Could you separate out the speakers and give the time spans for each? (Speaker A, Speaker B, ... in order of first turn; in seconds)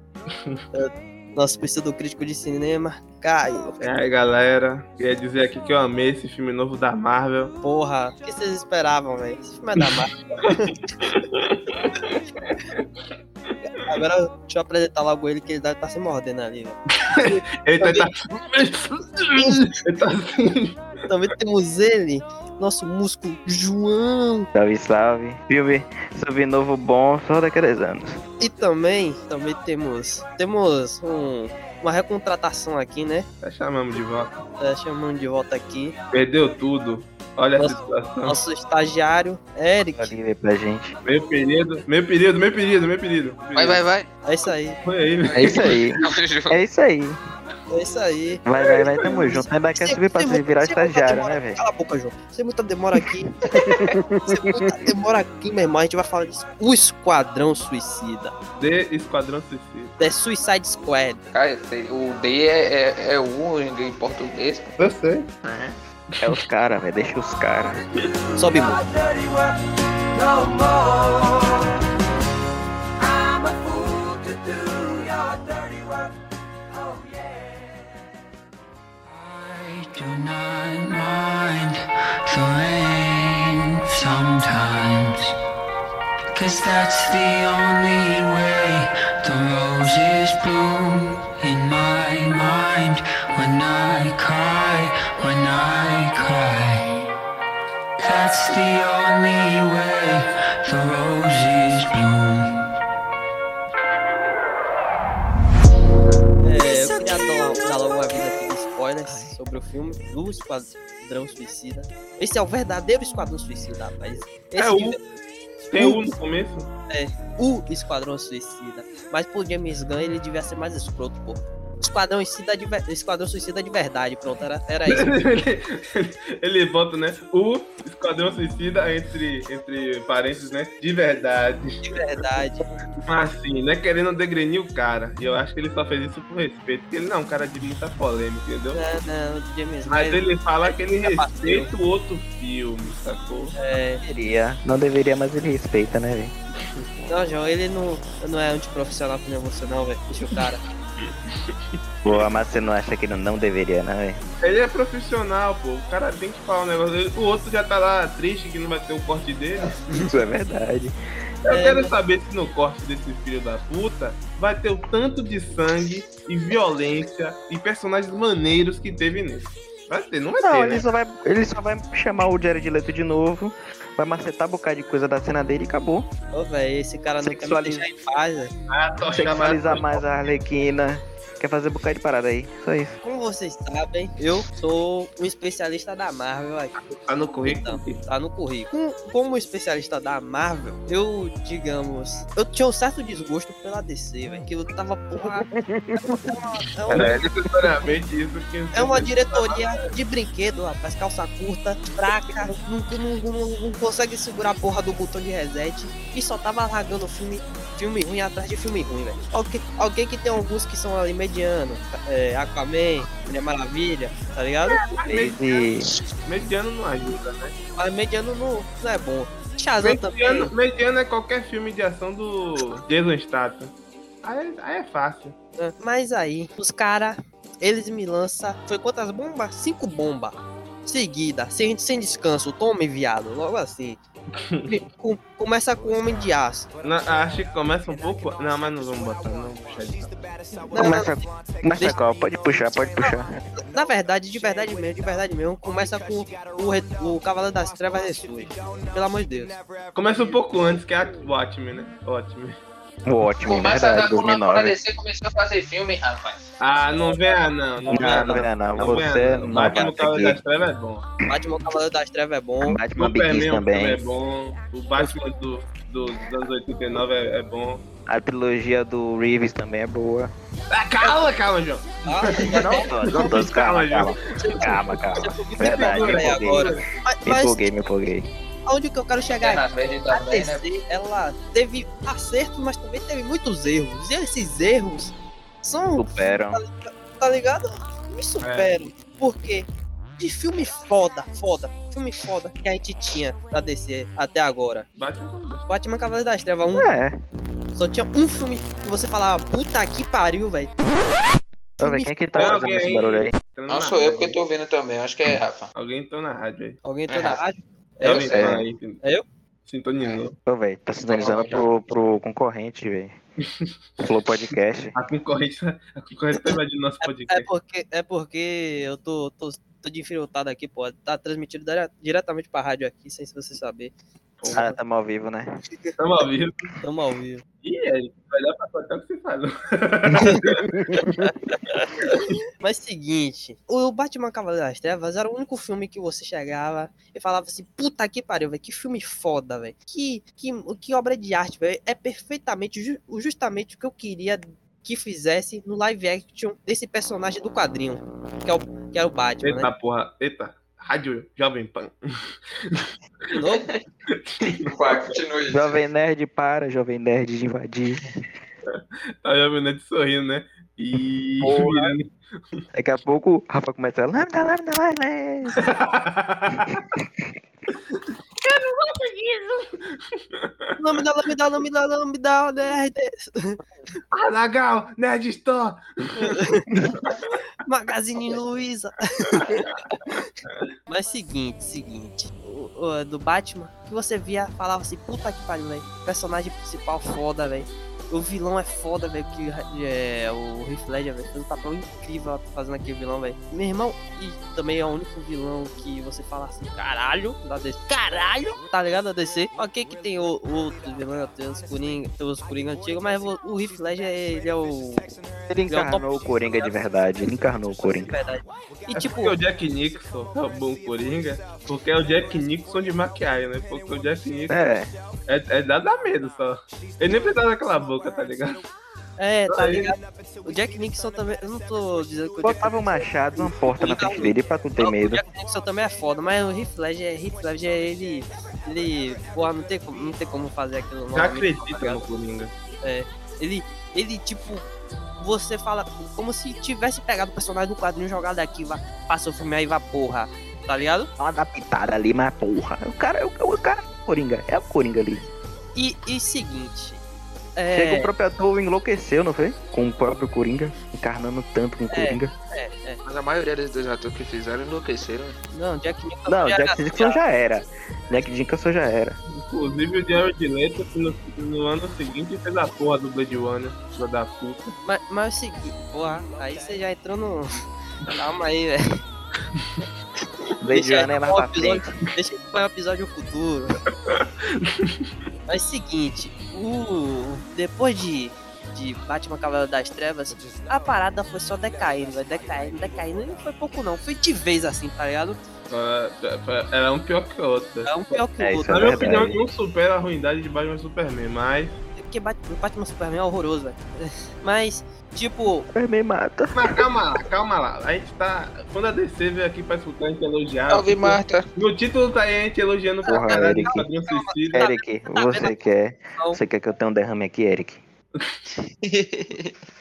Speaker A: 0.7-3.8, 7.6-10.8, 13.6-18.0, 21.1-24.5, 28.4-33.3, 34.6-36.0, 37.6-40.1, 44.3-44.8, 47.7-48.5, 49.0-53.5, 54.3-58.3, 60.0-61.2, 68.4-68.9, 106.4-115.0, 115.8-116.1, 116.9-125.1, 131.8-132.7, 138.7-141.7, 143.6-144.0, 147.1-150.6, 161.5-161.9, 176.3-178.5, 183.0-186.8, 187.4-197.1, 198.7-214.8, 217.8-220.5, 225.6-234.0, 234.7-236.7, 240.7-241.2, 241.7-242.0, 243.0-249.6, 258.0-258.3, 259.6-259.9, 261.3-262.8, 272.1-273.5, 274.3-277.7, 278.6-289.7, 290.2-294.9, 295.7-296.9, 297.8-300.8, 301.8-302.6, 306.8-308.4, 317.0-323.9, 326.8-327.4, 330.9-349.7, 353.3-353.7, 370.8-373.6, 376.2-376.6, 377.6-379.6, 380.9-405.1, 405.7-406.8, 407.7-409.4, 419.2-432.1, 432.8-434.6, 435.2-441.1, 445.8-447.0, 447.6-448.1, 451.9-453.0, 455.5-457.2, 464.9-469.0, 470.7-473.8, 475.5-485.4, 487.9-489.1, 492.0-495.7, 503.0-505.6
Speaker B: 3.8-7.5, 9.8-12.8, 17.0-20.8, 33.4-34.4, 36.1-38.4, 41.0-43.8, 44.8-45.8, 48.6-49.3, 58.6-60.0, 64.8-65.3, 114.6-115.0, 115.7-116.7, 124.9-131.8, 133.1-138.8, 139.9-143.5, 151.0-151.6, 154.4-159.8, 161.4-170.8, 178.7-180.0, 186.8-188.0, 196.9-199.8, 214.6-217.6, 219.8-225.3, 234.4-234.7, 236.8-240.3, 249.9-252.6, 256.6-261.1, 263.0-267.8, 270.7-275.0, 275.6-276.9, 288.4-288.7, 295.0-295.7, 302.3-304.4, 305.8-306.8, 308.0-309.0, 309.6-310.3, 314.9-317.5, 324.4-324.8, 326.0-326.7, 327.6-331.0, 349.4-351.9, 354.1-355.1, 358.8-362.1, 365.6-366.8, 367.9-370.7, 374.1-376.4, 408.9-414.7, 415.3-418.6, 419.5-419.9, 431.1-432.5, 459.4-464.8, 474.1-475.1, 485.7-491.8, 496.5-504.6
Speaker C: 24.5-28.2, 40.0-40.9, 45.3-47.2, 48.5-51.6, 53.5-54.7, 66.2-67.8, 144.0-146.3, 152.0-154.2, 159.9-160.9, 170.4-176.1, 177.2-177.8, 179.1-183.0, 195.2-196.3, 196.9-197.6, 215.0-215.9, 240.7-243.4, 253.1-254.8, 257.9-260.4, 262.6-264.0, 268.1-270.3, 272.4-278.3, 285.9-286.6, 296.7-297.2, 301.8-303.3, 308.0-308.6, 310.4-313.2, 314.0-314.9, 324.5-325.6, 330.6-331.1, 355.5-358.1, 361.4-361.9, 362.7-365.7, 405.5-408.1, 414.5-414.9, 422.4-425.2, 441.2-445.3, 447.7-452.3, 456.3-459.2, 470.6-472.0, 488.4-489.4, 495.7-496.9, 503.1-503.9, 504.5-507.8
Speaker D: 43.5-44.1, 45.2-46.6, 61.3-64.8, 253.4-256.5, 279.3-280.7, 303.7-305.7, 307.1-307.4, 311.1-311.6, 354.5-355.7, 453.1-455.4, 500.7-501.5, 508.8-509.5
Speaker E: 79.0-85.3, 86.3-96.9, 98.0-102.5